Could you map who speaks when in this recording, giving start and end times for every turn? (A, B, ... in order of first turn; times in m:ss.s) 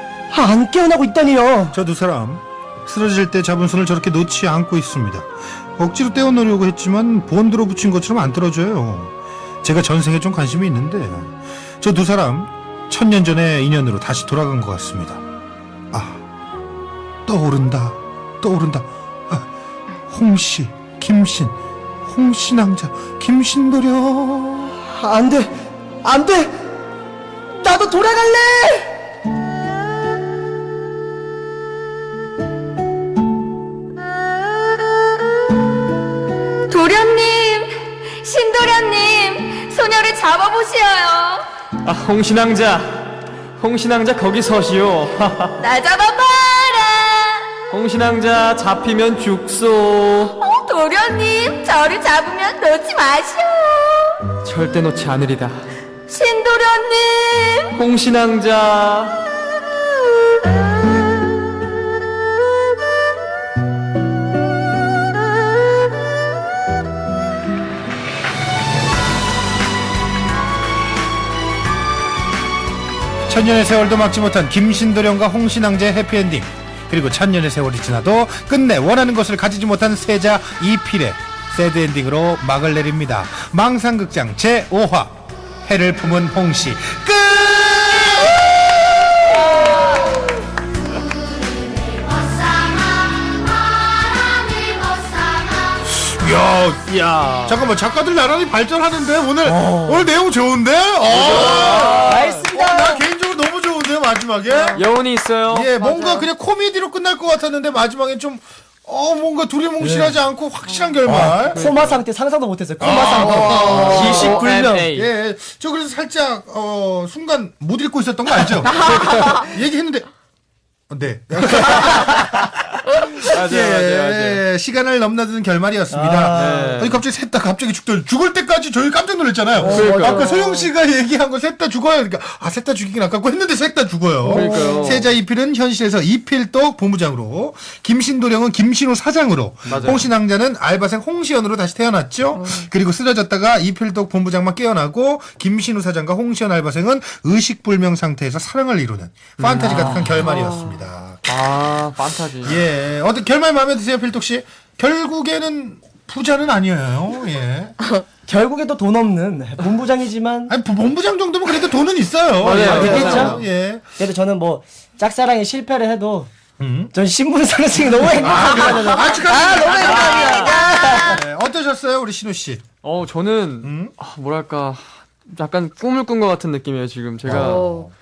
0:00.3-0:01.8 A
0:01.7-0:15.2 B
0:15.9-0:16.2 B
0:17.2-0:19.4 B
0:20.1-0:21.5 B
0:22.1-0:24.8 B
0:24.8-0:25.5 A
0:26.0-0:26.6 A
0:27.6-0:28.9 A
0:36.7-0:41.4 C
0:41.8-0:45.5 D
0:45.6-0:47.5 C
0:47.7-0:50.4 D
0:50.4-0:54.2 C
0:54.4-0:55.7 D
0:56.1-0:57.8 C
0:57.7-0:59.2 D
1:13.3-1:29.3 B
1:31.1-1:35.7 C
1:35.8-1:44.8 B
1:36.9-1:37.5 D
1:39.4-1:40.1 A
1:41.1-1:42.5 D
1:41.9-1:43.0 A
1:44.5-1:44.8 C
1:44.7-1:45.7 D
1:45.5-1:51.7 B
1:45.8-1:46.3 C
1:49.8-1:50.2 A
1:51.0-1:54.9 A
1:51.2-1:52.0 D
1:52.8-2:00.1 B
1:52.8-1:55.1 D
1:58.8-1:59.4 D
1:59.0-1:59.3 C
2:00.9-2:31.2 B
2:01.7-2:02.1 D
2:03.1-2:04.4 D
2:05.9-2:06.8 A
2:06.3-2:07.0 D
2:09.6-2:10.2 D
2:09.6-2:10.2 A
2:09.8-2:10.7 C
2:14.2-2:15.1 D
2:14.3-2:14.8 A
2:19.7-2:20.1 D
2:22.3-2:22.7 C
2:29.4-2:30.2 D
2:29.7-2:30.0 A
2:30.2-2:30.8 C
2:31.2-2:32.6 D
2:32.4-2:37.8 B
2:38.3-2:40.5 A
2:40.5-2:43.8 B
2:42.4-2:43.4 D
2:42.6-2:43.4 A
2:42.9-2:43.3 C
2:44.0-2:46.3 A
2:46.6-2:46.9 B
2:46.9-2:50.5 A
2:48.2-2:52.6 B
2:48.5-2:51.2 C
2:49.8-2:50.4 D
2:52.8-2:57.7 D
2:53.6-2:53.9 B
2:57.2-2:57.9 B
2:57.3-2:57.9 C